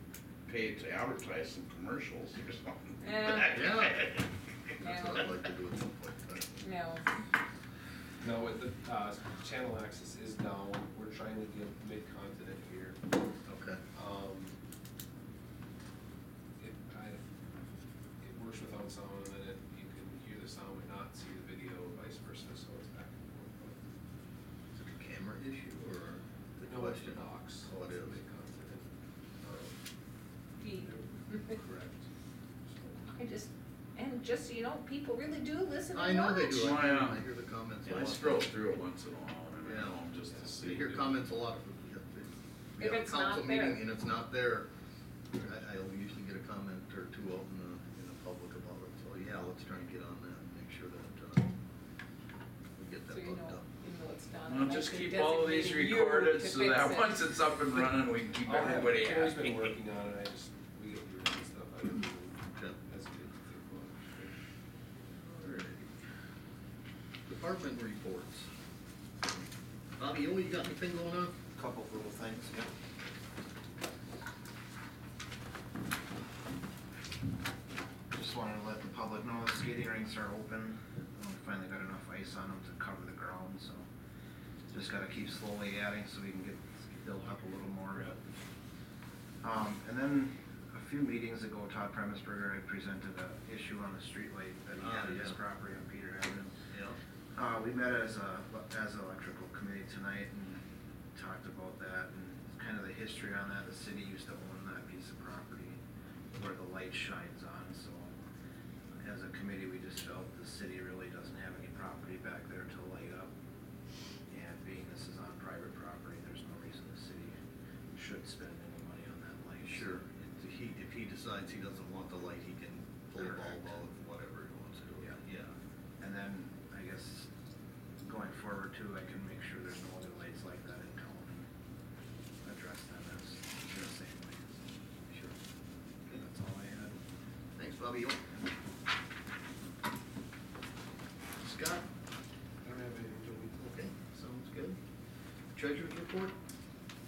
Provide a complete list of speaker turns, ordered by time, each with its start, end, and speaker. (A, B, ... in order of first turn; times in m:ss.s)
0:00.5-0:03.8 A
0:03.0-0:03.7 B
0:03.5-0:04.1 C
0:04.8-0:06.6 C
0:04.8-0:05.3 B
0:06.6-0:07.0 B
0:08.2-0:13.0 D
0:13.5-0:13.8 C
0:13.9-0:14.5 D
0:16.6-0:17.2 D
0:18.2-0:23.8 D
0:24.7-0:28.2 C
0:26.6-0:29.7 D
0:30.6-0:31.6 B
0:30.8-0:32.0 D
0:33.0-0:36.5 B
0:35.9-0:38.5 C
0:36.4-0:37.2 A
0:37.8-0:40.9 A
0:39.6-0:40.0 C
0:40.6-0:44.7 C
0:42.8-0:43.8 B
0:45.3-0:51.5 C
0:52.8-0:53.7 C
0:53.1-0:57.3 B
0:54.4-0:59.7 A
0:58.4-1:04.4 D
1:05.2-1:05.9 C
1:07.3-1:08.5 C
1:10.0-1:11.4 C
1:11.5-1:12.7 E
1:18.1-1:23.9 E
1:24.7-1:28.2 E
1:29.4-1:36.5 E
1:34.8-1:35.4 C
1:36.7-1:37.0 C
1:37.3-1:40.6 E
1:41.1-1:45.8 E
1:46.3-1:48.2 E
1:49.0-1:53.3 E
1:54.3-1:57.3 E
1:57.9-2:00.2 E
1:59.6-2:05.5 C
2:03.2-2:03.8 E
2:06.0-2:07.3 E
2:08.0-2:11.5 E
2:12.4-2:14.5 E
2:16.1-2:17.0 E
2:17.6-2:18.2 C
2:21.4-2:21.9 C
2:22.6-2:23.7 D
2:23.6-2:24.8 C
2:25.5-2:26.3 C